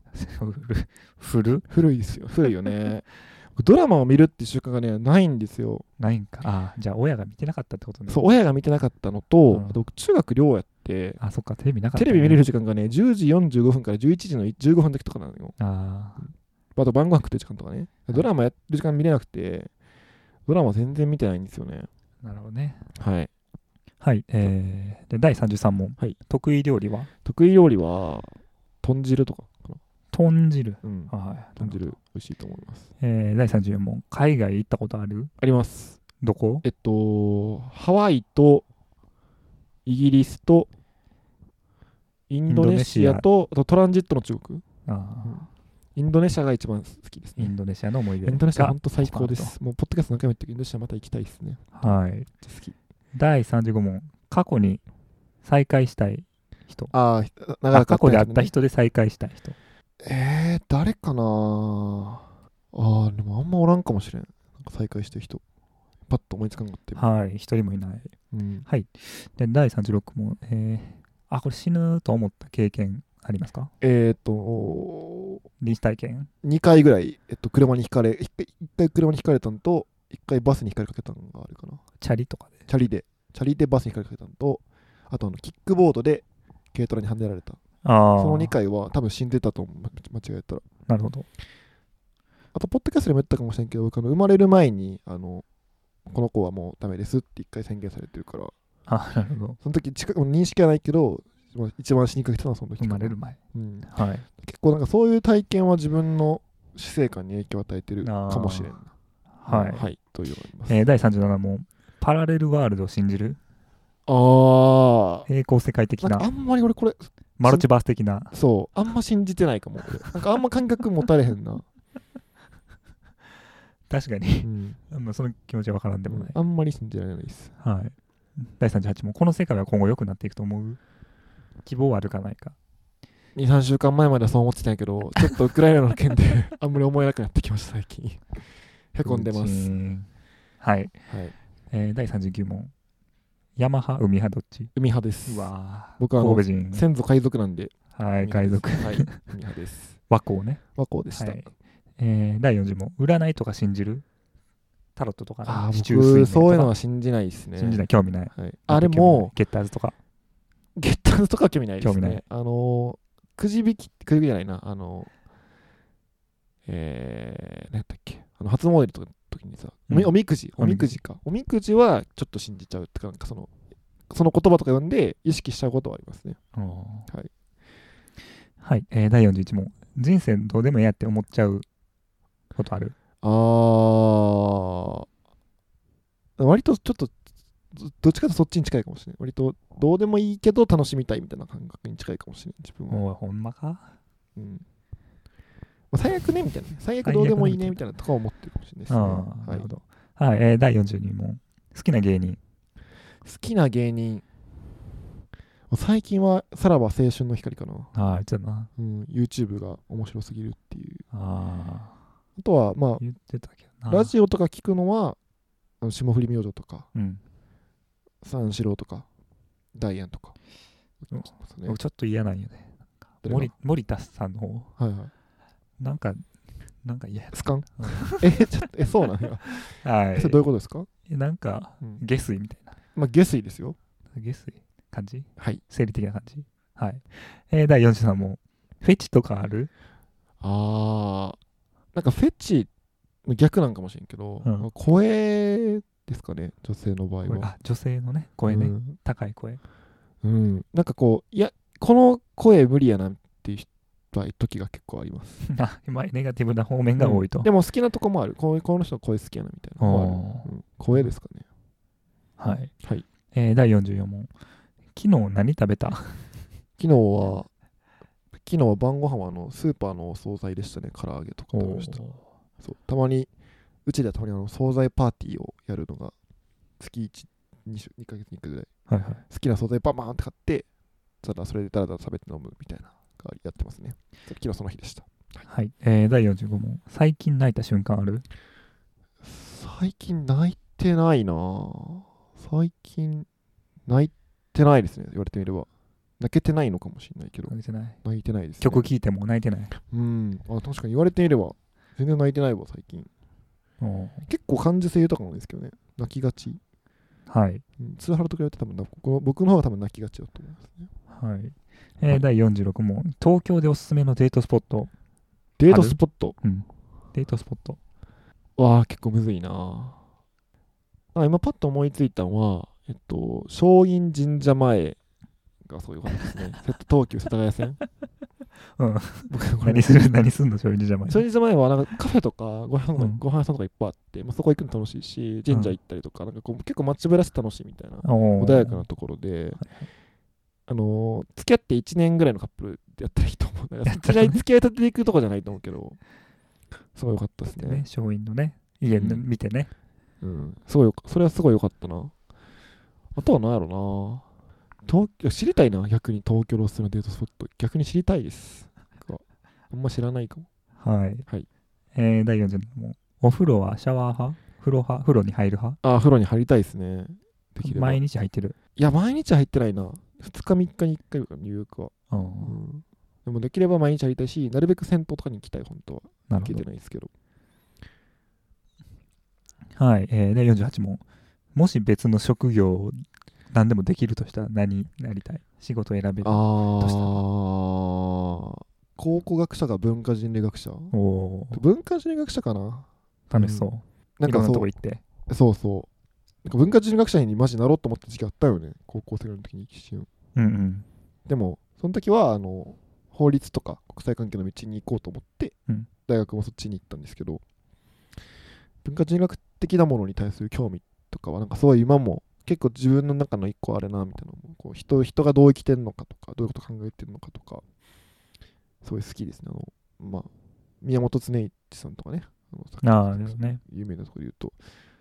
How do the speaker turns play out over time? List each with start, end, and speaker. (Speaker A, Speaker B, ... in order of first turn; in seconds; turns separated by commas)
Speaker A: 0.1-1.7, Speaker B: 1.7-5.8, Speaker A: 6.0-8.2, Speaker B: 8.1-11.2, Speaker A: 9.5-9.8, Speaker A: 11.2-12.4, Speaker B: 11.9-15.6, Speaker A: 15.6-16.2, Speaker B: 16.2-19.7, Speaker B: 20.5-21.9, Speaker A: 22.2-22.8, Speaker B: 23.0-23.3, Speaker A: 24.0-27.1, Speaker B: 27.2-29.8, Speaker A: 30.1-31.9, Speaker B: 30.8-32.9, Speaker A: 33.0-35.3, Speaker B: 35.4-36.0, Speaker A: 36.2-36.6, Speaker B: 36.6-38.6, Speaker B: 39.9-40.7, Speaker B: 42.3-44.6, Speaker A: 42.5-43.2, Speaker A: 44.9-45.4, Speaker B: 45.2-47.5, Speaker A: 47.4-49.5, Speaker B: 48.2-52.7, Speaker A: 51.7-52.3, Speaker A: 53.1-54.8, Speaker A: 55.4-56.9, Speaker B: 56.9-58.5, Speaker A: 57.7-59.5, Speaker B: 60.0-65.4, Speaker B: 66.1-67.0, Speaker A: 67.0-68.1, Speaker B: 68.3-68.7, Speaker A: 68.7-73.7, Speaker B: 73.8-75.4, Speaker A: 75.6-76.3, Speaker B: 76.4-81.8, Speaker A: 82.0-82.5, Speaker B: 82.7-87.6, Speaker A: 87.8-88.5, Speaker B: 88.2-90.7, Speaker A: 90.9-91.2, Speaker B: 92.5-95.4, Speaker B: 96.1-98.5, Speaker A: 98.9-99.6, Speaker B: 99.6-108.9, Speaker A: 102.8-104.2, Speaker A: 108.0-108.7, Speaker A: 109.4-109.8, Speaker B: 109.5-110.8, Speaker A: 110.7-113.4, Speaker B: 114.1-115.3, Speaker A: 115.3-116.3, Speaker B: 116.0-117.7, Speaker A: 117.4-118.3, Speaker B: 118.3-121.7, Speaker A: 123.9-126.3, Speaker B: 124.4-124.8, Speaker B: 126.1-127.5, Speaker A: 127.6-130.8, Speaker A: 131.6-132.6, Speaker B: 133.3-138.3, Speaker B: 138.9-139.7, Speaker A: 139.0-140.1, Speaker A: 140.6-140.9, Speaker B: 141.1-141.3, Speaker A: 141.7-142.7, Speaker A: 143.6-144.7, Speaker B: 144.7-150.0, Speaker A: 145.2-146.8, Speaker A: 147.9-149.2, Speaker A: 150.1-150.6, Speaker B: 150.8-151.4, Speaker A: 151.1-154.0, Speaker A: 154.9-156.7, Speaker B: 155.4-159.3, Speaker A: 157.6-159.9, Speaker B: 160.8-165.1, Speaker A: 161.8-162.2, Speaker B: 166.7-173.5, Speaker A: 169.9-170.9, Speaker B: 174.1-176.4, Speaker A: 176.5-177.1, Speaker A: 178.6-181.7, Speaker A: 182.6-182.9, Speaker B: 183.2-185.1, Speaker B: 186.4-187.1, Speaker B: 187.7-193.0, Speaker A: 192.9-193.9, Speaker B: 194.3-194.6, Speaker B: 195.9-199.7, Speaker A: 197.0-197.8, Speaker A: 198.9-202.4, Speaker B: 203.2-204.2, Speaker B: 205.7-207.9, Speaker A: 207.9-208.7, Speaker B: 208.8-211.0, Speaker A: 211.1-211.9, Speaker B: 212.4-213.0, Speaker A: 213.0-214.1, Speaker B: 213.9-215.2, Speaker B: 215.8-216.9, Speaker A: 216.9-217.2, Speaker B: 218.2-219.1, Speaker B: 219.8-220.3, Speaker B: 221.0-221.8, Speaker A: 221.1-224.7, Speaker B: 223.2-223.5, Speaker B: 224.8-225.1, Speaker A: 225.8-226.2, Speaker A: 226.8-228.4, Speaker B: 227.3-230.9, Speaker A: 229.6-230.4, Speaker A: 231.1-232.7, Speaker B: 232.9-233.8, Speaker A: 234.1-239.7, Speaker B: 240.4-241.4, Speaker B: 241.9-242.7, Speaker B: 243.2-247.5, Speaker A: 244.4-244.7, Speaker A: 247.2-249.6, Speaker B: 248.5-249.0, Speaker B: 250.2-255.4, Speaker A: 255.4-257.5, Speaker B: 257.0-261.4, Speaker A: 259.8-261.1, Speaker A: 262.4-262.7, Speaker A: 263.3-264.3, Speaker A: 264.9-266.3, Speaker B: 266.8-267.5, Speaker B: 268.4-272.0, Speaker A: 271.5-272.2, Speaker B: 272.6-273.3, Speaker B: 273.9-276.1, Speaker B: 276.8-278.7, Speaker A: 278.9-279.2, Speaker B: 279.3-280.7, Speaker B: 281.2-285.4, Speaker A: 285.5-288.2, Speaker B: 289.2-293.2, Speaker B: 293.9-295.7, Speaker B: 296.2-298.9, Speaker A: 297.5-298.0, Speaker A: 298.6-299.7, Speaker B: 299.8-303.1, Speaker A: 303.8-304.2, Speaker B: 304.2-306.6, Speaker A: 307.3-307.6, Speaker B: 307.8-310.9, Speaker A: 311.1-314.9, Speaker B: 315.6-316.4, Speaker A: 315.7-317.8, Speaker B: 318.6-320.0, Speaker B: 321.1-325.0, Speaker B: 325.6-327.8, Speaker A: 328.8-331.2, Speaker B: 329.3-330.1, Speaker B: 331.1-339.6, Speaker A: 335.5-335.7, Speaker A: 338.0-338.8, Speaker A: 339.6-339.9, Speaker B: 340.7-346.0, Speaker A: 343.9-344.4, Speaker B: 346.9-347.8, Speaker A: 347.6-349.7, Speaker B: 348.9-349.2, Speaker B: 350.2-352.1, Speaker B: 353.1-354.2, Speaker B: 354.9-360.5, Speaker A: 360.8-361.2, Speaker A: 361.9-365.8, Speaker B: 365.8-368.0, Speaker A: 367.6-368.6, Speaker B: 368.8-377.1, Speaker A: 372.1-372.6, Speaker A: 376.3-376.6, Speaker A: 379.7-381.0, Speaker A: 381.5-387.2, Speaker B: 386.2-390.9, Speaker A: 390.9-391.6, Speaker B: 391.5-393.6, Speaker A: 393.3-395.0, Speaker B: 394.2-394.7, Speaker B: 395.3-395.9, Speaker B: 396.4-400.1, Speaker A: 400.3-400.9, Speaker B: 401.3-405.5, Speaker B: 406.1-407.4, Speaker B: 408.8-417.6, Speaker B: 418.8-420.3, Speaker B: 420.8-424.6, Speaker A: 422.8-423.6